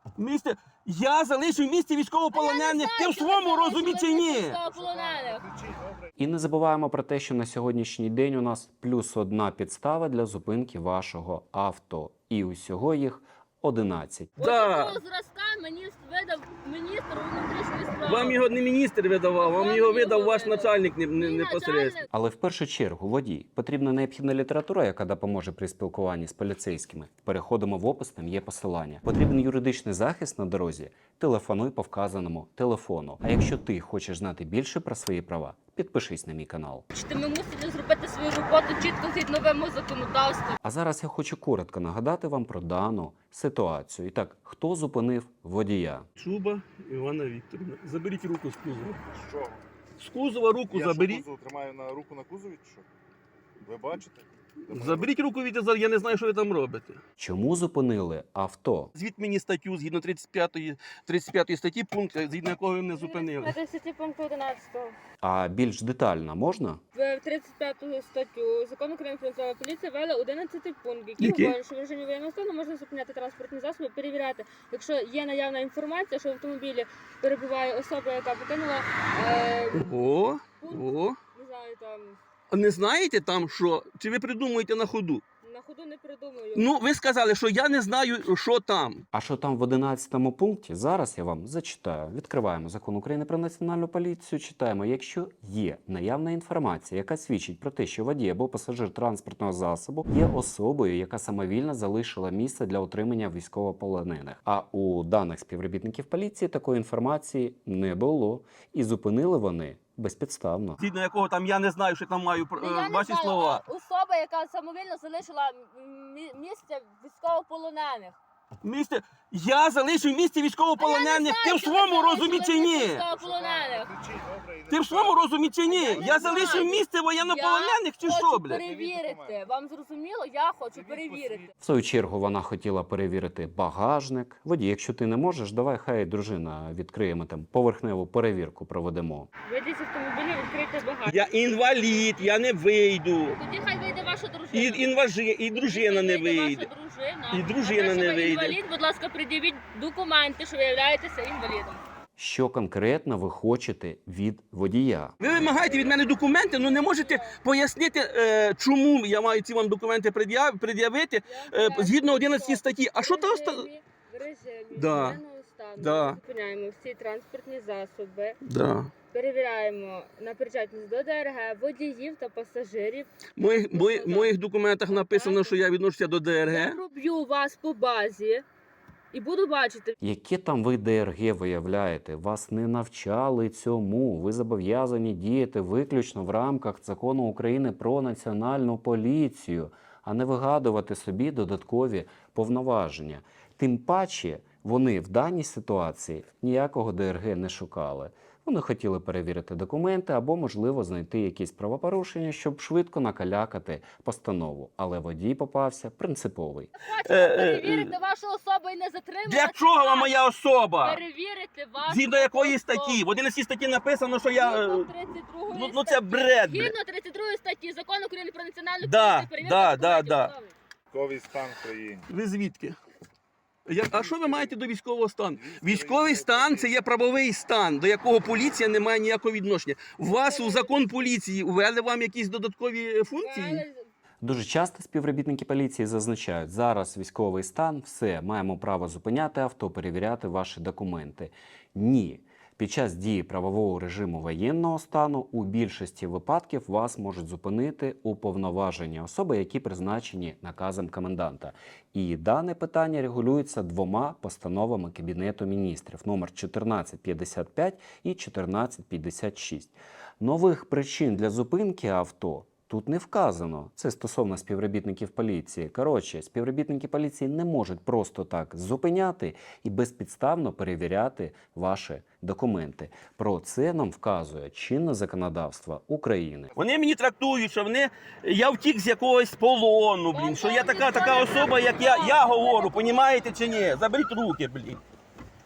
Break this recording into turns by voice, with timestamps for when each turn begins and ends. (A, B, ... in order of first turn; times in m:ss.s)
0:00.2-0:04.6 A
0:02.3-0:05.4 B
0:04.7-0:06.0 C
0:06.2-0:14.3 D
0:14.4-0:18.4 B
0:14.4-0:15.0 A
0:18.0-0:22.0 A
0:19.4-0:22.1 B
0:22.1-0:36.8 D
0:36.9-0:40.6 B
0:40.6-0:46.0 D
0:46.2-0:49.0 A
0:49.1-0:49.6 C
0:50.0-0:51.2 A
0:50.7-0:52.8 C
0:53.6-0:55.1 C
0:54.7-0:57.0 A
0:57.2-0:58.9 D
0:58.9-1:03.6 A
1:02.9-1:04.9 B
1:05.2-1:06.8 D
1:06.9-1:19.9 B
1:11.2-1:11.5 A
1:19.7-1:21.2 A
1:20.6-1:22.2 B
1:22.5-1:25.2 A
1:25.4-1:26.7 B
1:26.5-1:29.0 A
1:29.1-1:50.8 D
1:50.8-1:53.6 A
1:52.6-1:58.2 B
1:58.6-2:03.0 A
2:00.8-2:03.9 B
2:03.1-2:05.2 C
2:04.7-2:08.6 A
2:05.7-2:11.5 B
2:05.9-2:06.6 C
2:08.1-2:09.4 C
2:10.7-2:11.5 C
2:11.6-2:19.3 D
2:19.5-2:21.2 B
2:21.1-2:23.4 A
2:21.7-2:22.3 B
2:23.3-2:24.9 B
2:24.5-2:26.7 A
2:25.5-2:31.8 B
2:27.3-2:28.6 A
2:32.2-2:35.1 D
2:35.2-2:43.7 A
2:35.5-2:37.4 B
2:41.2-2:48.4 B
2:44.7-2:45.2 A
2:45.8-2:46.2 A
2:48.4-2:48.9 A
2:49.1-2:55.6 B
2:53.4-2:56.8 A
2:56.5-2:58.4 B
2:59.1-2:59.9 B
3:00.0-3:26.7 D
3:26.8-3:30.1 B
3:27.0-3:27.9 A
3:29.3-3:31.0 A
3:30.8-3:33.0 B
3:31.9-3:34.9 A
3:34.3-3:40.5 B
3:35.5-3:36.7 A
3:38.8-3:40.3 A
3:40.9-3:42.0 C
3:42.1-3:42.8 A
3:43.7-3:53.6 A
3:43.9-3:44.6 C
3:45.3-3:46.8 C
3:50.1-3:51.0 B
3:53.2-3:53.8 B
3:54.2-4:36.5 D
4:36.6-4:44.8 A
4:40.1-4:43.3 B